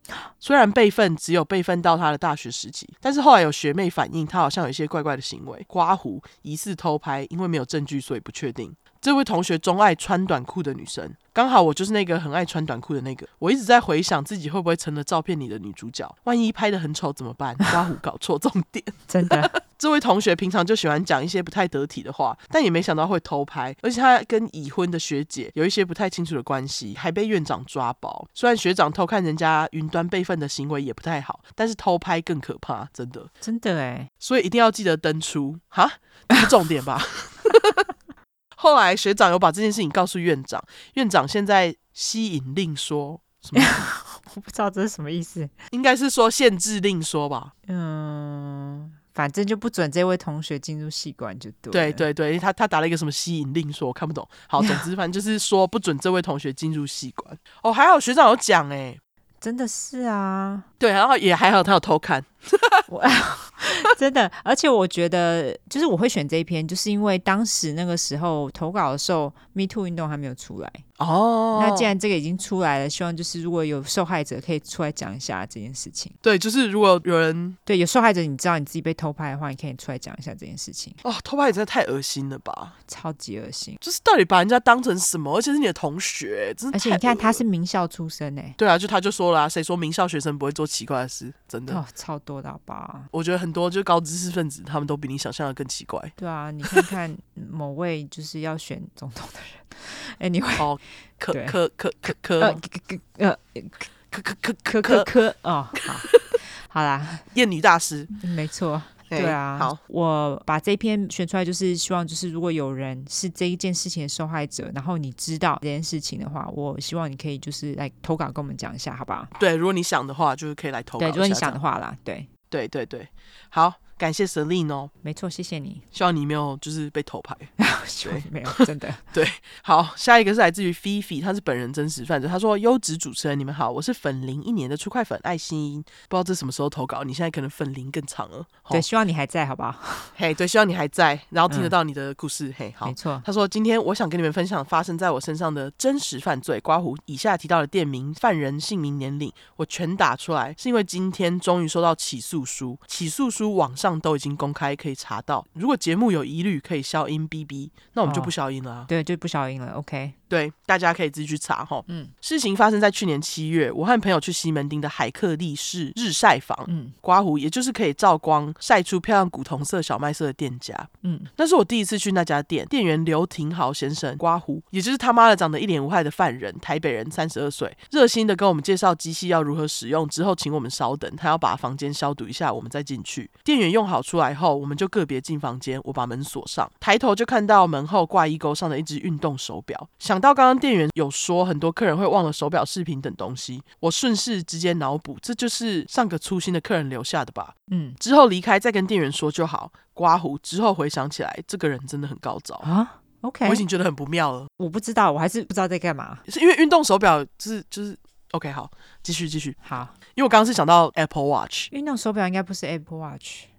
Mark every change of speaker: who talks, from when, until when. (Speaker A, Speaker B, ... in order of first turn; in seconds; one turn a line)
Speaker A: 0.4-33.3
Speaker B: 19.1-19.6
Speaker B: 33.4-34.1
Speaker A: 34.2-37.8
Speaker A: 38.6-43.9
Speaker B: 43.5-45.5
Speaker A: 45.7-47.5
Speaker B: 47.7-52.0
Speaker A: 51.7-59.0
Speaker B: 54.6-54.9
Speaker B: 59.4-60.7
Speaker A: 60.8-62.9
Speaker B: 62.9-70.8
Speaker A: 71.0-71.9
Speaker B: 71.5-76.1
Speaker A: 76.2-77.6
Speaker B: 77.7-81.0
Speaker A: 81.0-82.7
Speaker B: 82.9-83.8
Speaker A: 83.8-87.4
Speaker B: 86.7-88.6
Speaker A: 88.6-91.8
Speaker B: 91.7-93.1
Speaker A: 93.1-96.9
Speaker B: 96.2-100.7
Speaker A: 100.6-102.6
Speaker B: 101.3-101.6
Speaker B: 102.1-103.9
Speaker A: 104.1-105.1
Speaker B: 104.7-106.1
Speaker A: 105.8-106.4
Speaker B: 106.7-107.3
Speaker A: 107.3-108.1
Speaker B: 108.2-119.3
Speaker A: 109.1-109.8
Speaker A: 119.4-121.6
Speaker B: 121.0-122.3
Speaker A: 122.5-124.9
Speaker B: 125.0-125.8
Speaker A: 125.9-127.5
Speaker B: 127.6-129.1
Speaker A: 128.0-128.6
Speaker A: 129.1-138.9
Speaker B: 138.7-140.1
Speaker A: 140.2-158.9
Speaker B: 141.5-141.7
Speaker B: 142.8-143.2
Speaker B: 158.1-158.3
Speaker B: 158.9-160.2
Speaker A: 160.3-202.7
Speaker B: 161.9-162.1
Speaker B: 166.7-166.9
Speaker B: 171.0-171.3
Speaker B: 197.7-198.0
Speaker B: 202.6-203.7
Speaker A: 203.4-204.5
Speaker B: 204.6-206.2
Speaker A: 206.3-209.6
Speaker B: 209.6-209.9
Speaker A: 210.2-211.7
Speaker B: 211.7-213.5